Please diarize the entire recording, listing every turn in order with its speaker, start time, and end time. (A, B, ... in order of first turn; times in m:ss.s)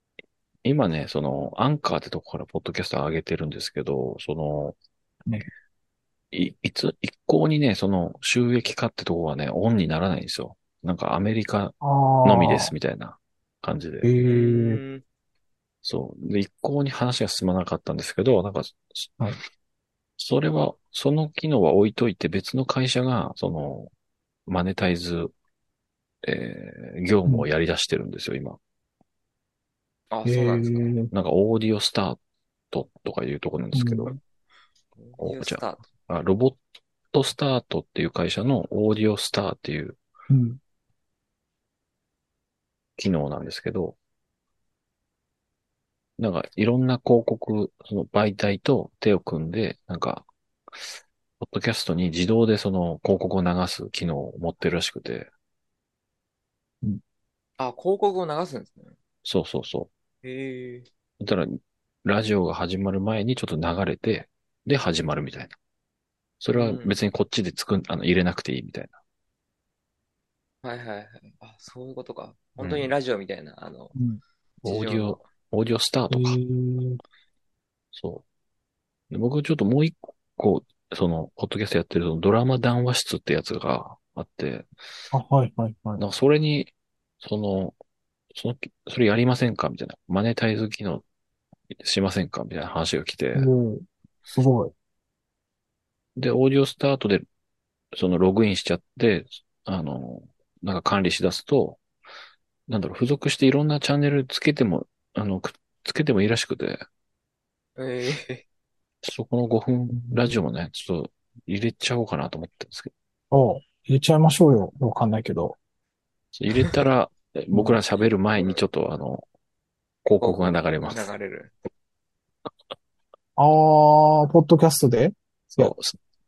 0:00.6-0:04.8 A
0:06.3-0:14.1 A
0:11.8-0:12.7 B
0:14.0-0:14.8 B
0:14.2-0:15.0 C
0:15.8-0:19.2 A
0:20.2-0:23.9 A
0:24.5-0:25.3 A
0:26.2-0:28.6 A
0:30.1-0:30.9 C
0:30.2-0:31.1 B
0:31.1-0:32.2 A
0:32.7-0:34.1 A
0:33.7-0:34.2 B
0:35.0-0:35.8 C
0:35.2-0:36.6 A
0:37.1-0:40.0 A
0:40.3-0:40.6 B
0:43.0-0:44.0 A
0:46.2-0:55.3 A
0:57.6-0:59.0 C
0:59.2-0:59.9 A
1:00.2-1:00.9 C
1:01.2-1:05.6 A
1:06.4-1:09.0 A
1:06.6-1:07.0 C
1:10.6-1:13.9 C
1:12.6-1:12.9 A
1:14.0-1:14.2 B
1:14.6-1:15.2 C
1:14.6-1:16.4 A
1:16.1-1:17.0 B
1:17.9-1:18.2 A
1:19.1-1:24.7 A
1:25.1-1:26.0 B
1:26.0-1:27.8 A
1:28.3-1:31.0 A
1:31.7-1:33.5 A
1:33.4-1:34.7 B
1:36.2-1:37.2 A
1:37.9-1:41.8 A
1:42.7-1:46.8 A
1:47.8-1:48.4 C
1:49.0-1:52.9 A
1:50.0-1:50.3 B
1:53.3-1:55.6 B
1:56.3-1:59.2 A
1:58.4-1:58.6 C
2:00.0-2:01.1 A
2:00.2-2:01.5 C
2:03.4-2:05.7 B
2:05.6-2:06.0 A